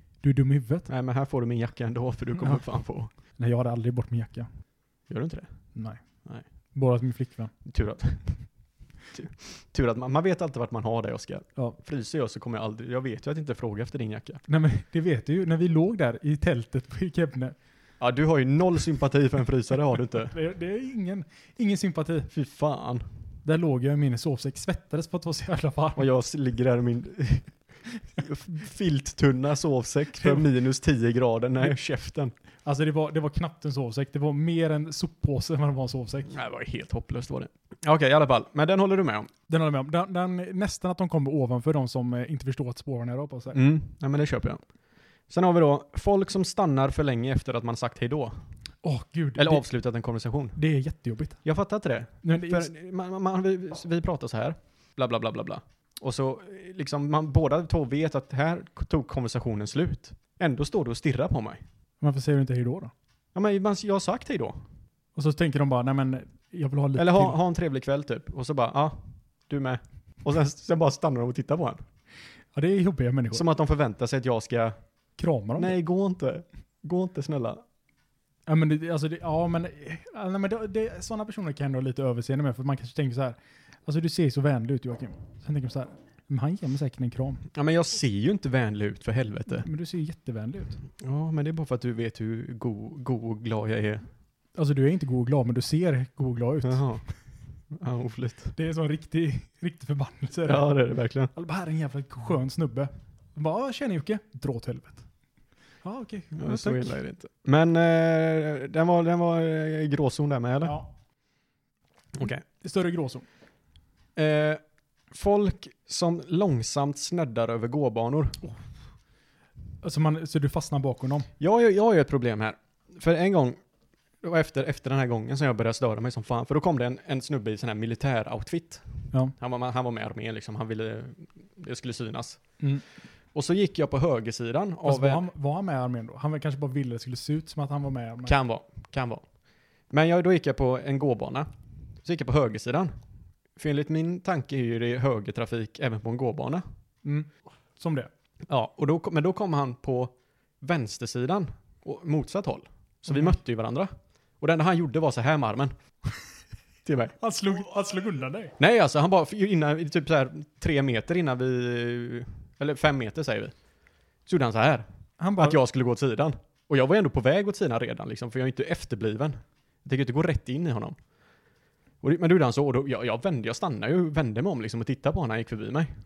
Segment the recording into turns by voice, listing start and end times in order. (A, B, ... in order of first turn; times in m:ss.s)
0:00.2-0:00.9 A
0:00.9-0:03.1 B
0:03.4-0:04.5 A
0:05.1-0:05.5 B
0:05.8-0:06.0 A
0:06.8-0:07.5 A
0:07.6-0:08.4 B
0:09.1-0:14.4 B
0:14.5-0:17.6 A
0:18.0-0:20.4 B
0:20.3-0:22.3 A
0:22.3-0:23.1 B
0:23.4-0:26.0 A
0:26.0-0:27.6 B
0:28.1-0:32.3 B
0:30.2-0:30.5 A
0:32.6-0:36.3 A
0:36.3-0:39.3 B
0:39.5-0:43.6 A
0:43.5-0:44.6 B
0:45.3-0:48.4 B
0:48.8-0:49.6 A
0:49.4-0:50.6 B
0:50.6-0:51.4 A
0:51.4-1:01.6 B
0:52.2-0:52.7 A
1:02.0-1:02.9 A
1:03.4-1:04.6 B
1:05.2-1:07.4 A
1:07.0-1:11.8 B
1:12.5-1:13.4 A
1:13.3-1:14.8 B
1:15.2-1:15.8 A
1:15.6-1:17.6 B
1:18.5-1:27.4 A
1:27.5-1:29.7 B
1:29.6-1:30.8 A
1:31.0-1:34.1 B
1:34.6-1:36.9 A
1:36.6-1:37.0 B
1:37.7-1:38.5 B
1:38.6-1:40.7 A
1:40.4-1:41.3 B
1:41.3-1:45.0 A
1:45.8-1:47.0 A
1:46.4-1:50.8 B
1:52.2-1:52.4 B
1:52.5-1:53.2 A
1:54.2-1:54.6 B
1:55.1-1:58.4 B
1:59.8-2:01.3 A
2:01.4-2:03.6 B
2:04.2-2:12.4 B
2:13.3-2:15.2 B
2:14.8-2:18.4 A
2:18.3-2:19.2 B
2:19.9-2:21.5 B
2:22.0-2:22.9 B
2:23.6-2:26.6 B
2:27.0-2:28.1 A
2:28.5-2:35.7 B
2:33.1-2:33.4 A
2:36.8-2:37.1 B
2:37.2-2:38.6 A
2:38.6-2:43.5 B
2:44.3-2:44.9 B
2:45.2-2:45.6 A
2:45.4-2:51.0 B
2:52.0-2:55.9 B